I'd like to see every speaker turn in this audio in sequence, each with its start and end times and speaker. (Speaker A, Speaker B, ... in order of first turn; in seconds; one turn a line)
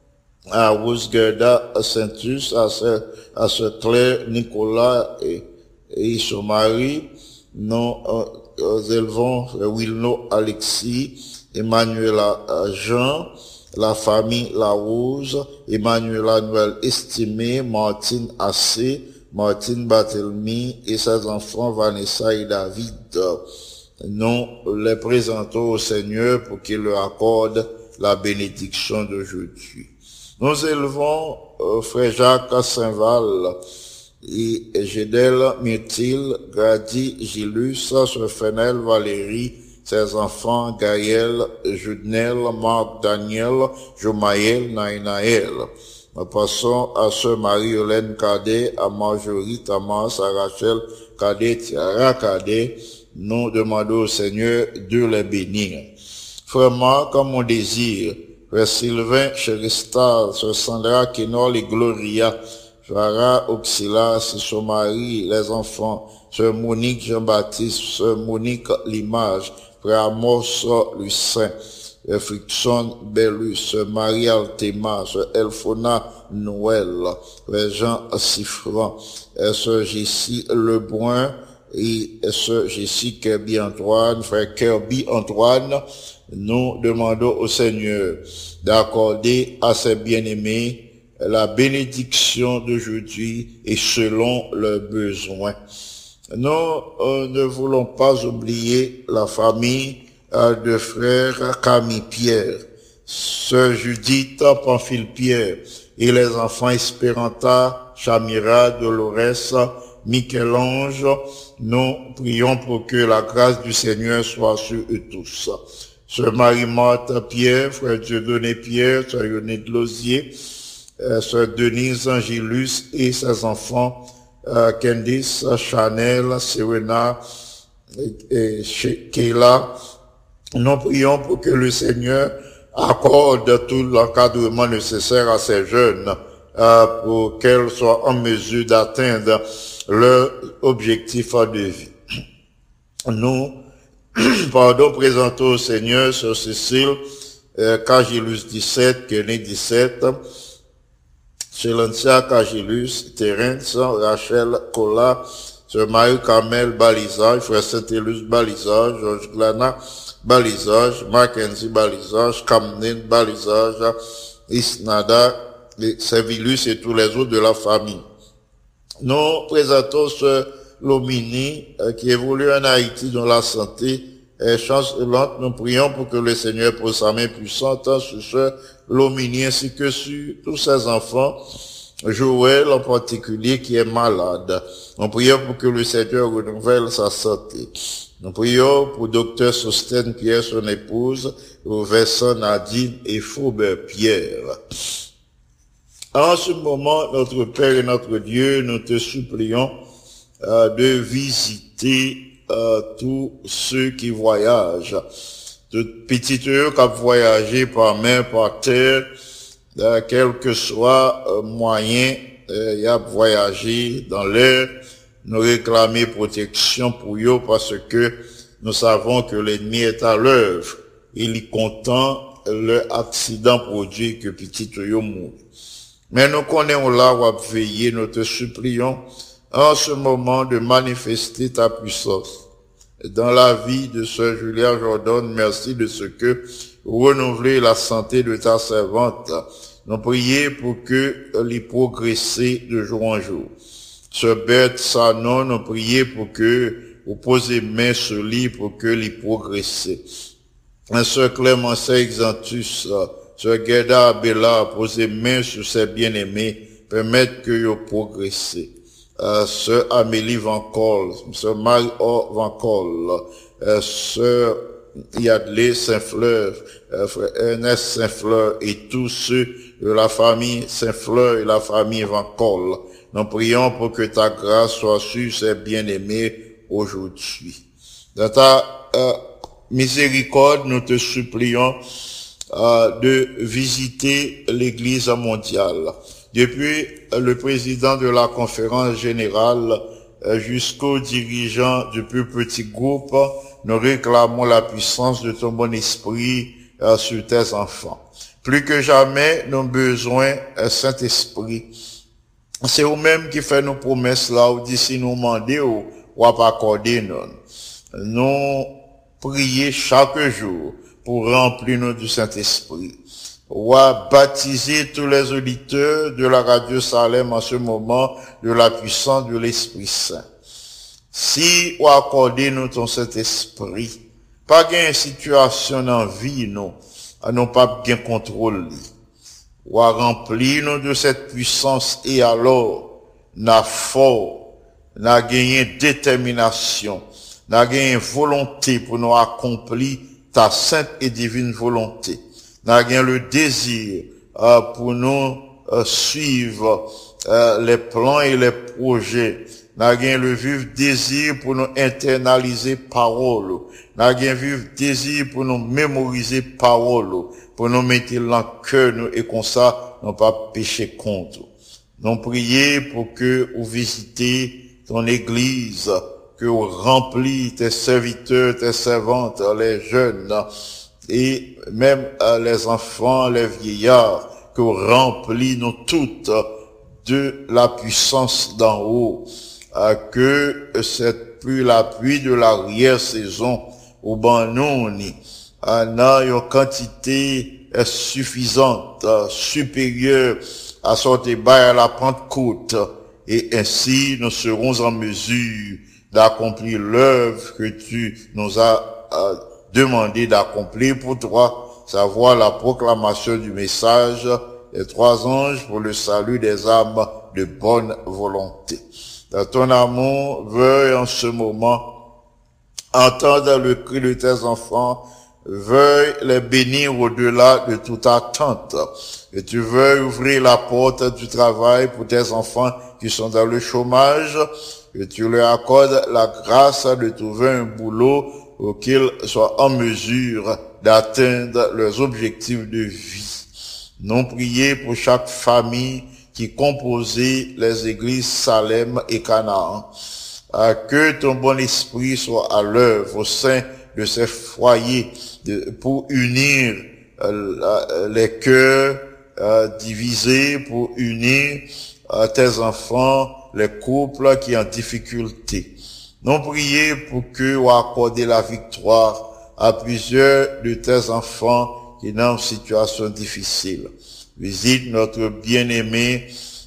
Speaker A: 0.5-23.4
Speaker A: 24.0-33.5
Speaker A: 34.2-55.9
Speaker A: 56.5-71.5
Speaker A: 72.0-95.6
Speaker A: 96.3-115.6
Speaker A: 116.1-120.3
Speaker A: 121.0-127.2
Speaker A: 128.0-129.7
Speaker A: 130.6-141.9
Speaker A: 143.1-143.6
Speaker A: 144.2-147.0
Speaker A: 147.6-150.2
Speaker A: 151.5-163.9
Speaker A: 164.5-168.1
Speaker A: 169.0-181.3
Speaker A: 182.1-194.6
Speaker A: 196.2-199.7
Speaker A: 200.4-205.0
Speaker A: 205.7-209.1
Speaker A: 209.8-214.7
Speaker A: 215.2-225.4
Speaker A: 226.1-232.4
Speaker A: 233.0-243.5
Speaker A: 244.1-250.0
Speaker A: 250.9-264.6
Speaker A: 265.1-277.6
Speaker A: 278.1-279.2
Speaker A: 279.7-281.8
Speaker A: 282.5-301.7
Speaker A: 302.6-307.4
Speaker A: 307.9-308.7
Speaker A: 309.2-313.0
Speaker A: 313.5-320.2
Speaker A: 321.1-328.9
Speaker A: 329.6-334.4
Speaker A: 335.0-361.5
Speaker A: 362.0-370.4
Speaker A: 371.1-376.4
Speaker A: 377.0-379.2
Speaker A: 379.7-411.8
Speaker A: 412.9-433.5
Speaker A: 434.0-439.9
Speaker A: 440.5-455.7
Speaker A: 456.2-466.2